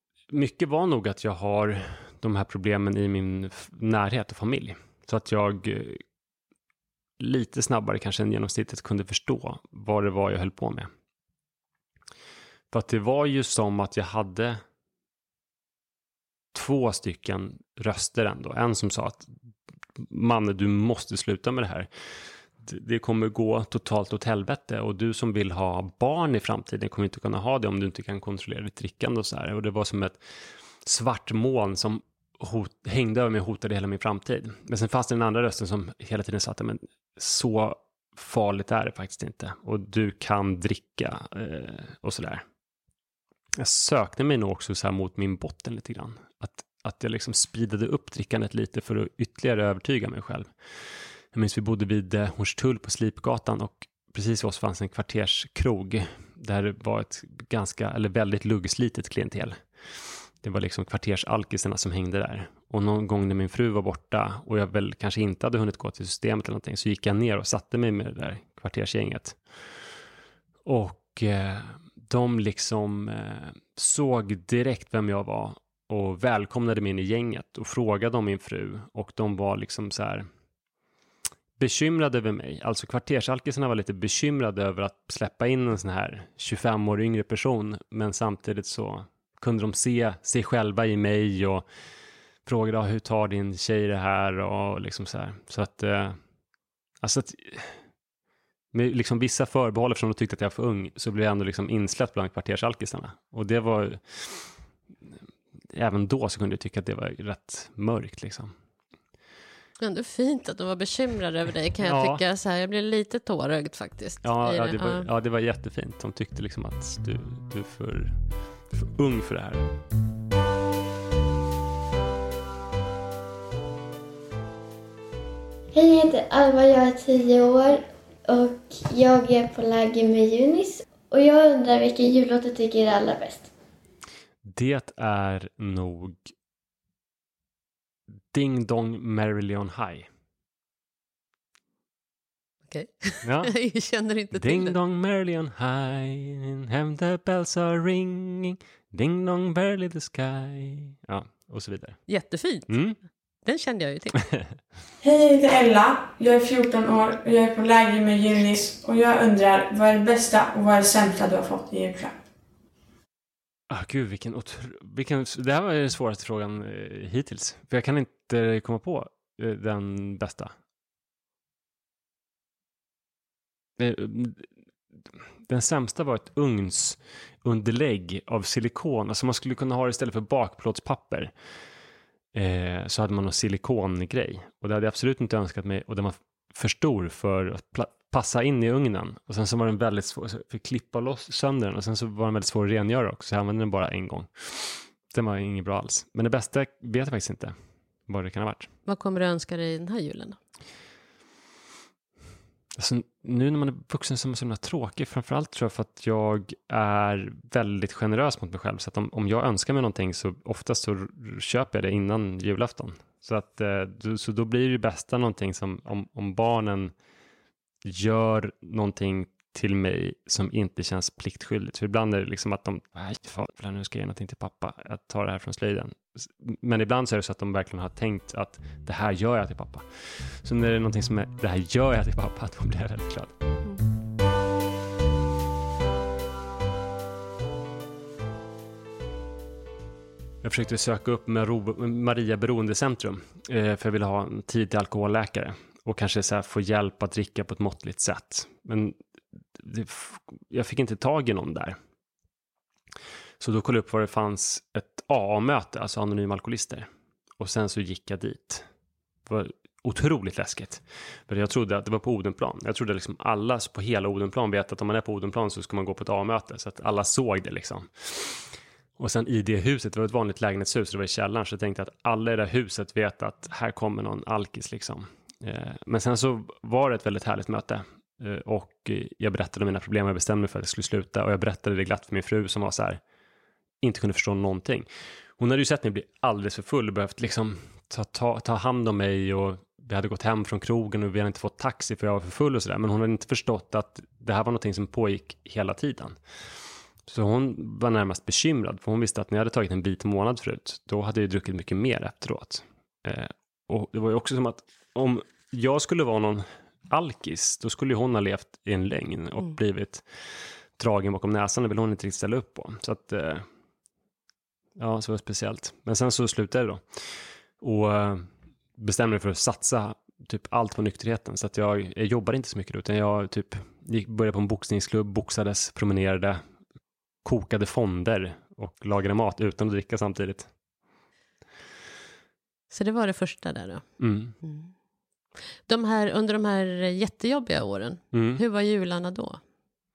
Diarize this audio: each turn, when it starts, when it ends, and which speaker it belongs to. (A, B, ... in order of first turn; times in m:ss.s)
0:00.3-0:06.0 A
0:07.2-0:10.9 A
0:12.7-0:14.6 A
0:16.5-0:19.3 A
0:20.0-0:21.9 A
0:22.6-0:30.2 A
0:30.8-0:42.4 A
0:43.6-0:50.5 A
0:51.3-0:59.6 A
1:00.4-1:09.4 A
1:10.6-1:20.3 A
1:21.6-1:31.6 A
1:32.4-1:36.2 A
1:37.0-1:37.8 A
1:38.7-1:44.5 A
1:45.7-1:48.5 A
1:49.8-1:55.1 B
1:51.8-1:52.2 A
1:54.2-1:58.2 A
1:58.7-1:59.6 A
2:05.7-2:13.5 C
2:14.4-2:16.3 A
2:18.3-2:20.1 A
2:22.7-2:24.8 B
2:23.2-2:23.5 A
2:24.3-2:32.0 A
2:32.1-2:32.8 B
2:32.7-2:33.0 A
2:33.4-2:34.3 B
2:35.0-2:42.1 D
2:43.7-2:50.5 A
2:53.8-2:54.5 A
2:55.5-3:01.3 A
3:02.3-3:17.5 A
3:18.1-3:18.7 A
3:18.9-3:20.4 B
3:22.8-3:36.9 A
3:37.8-3:53.3 A
4:00.4-4:09.0 A
4:09.6-4:11.8 A
4:13.4-4:16.9 A
4:17.4-4:18.6 A
4:19.3-4:43.0 A
4:43.8-4:44.8 A
4:45.4-4:56.2 A
4:57.0-5:10.0 A
5:10.8-5:13.4 A
5:14.8-5:16.8 A
5:17.6-5:26.4 A
5:27.2-5:30.5 A
5:32.7-5:33.8 B
5:34.0-5:34.3 A
5:34.4-5:34.7 B
5:35.6-5:39.4 B
5:38.1-5:38.4 A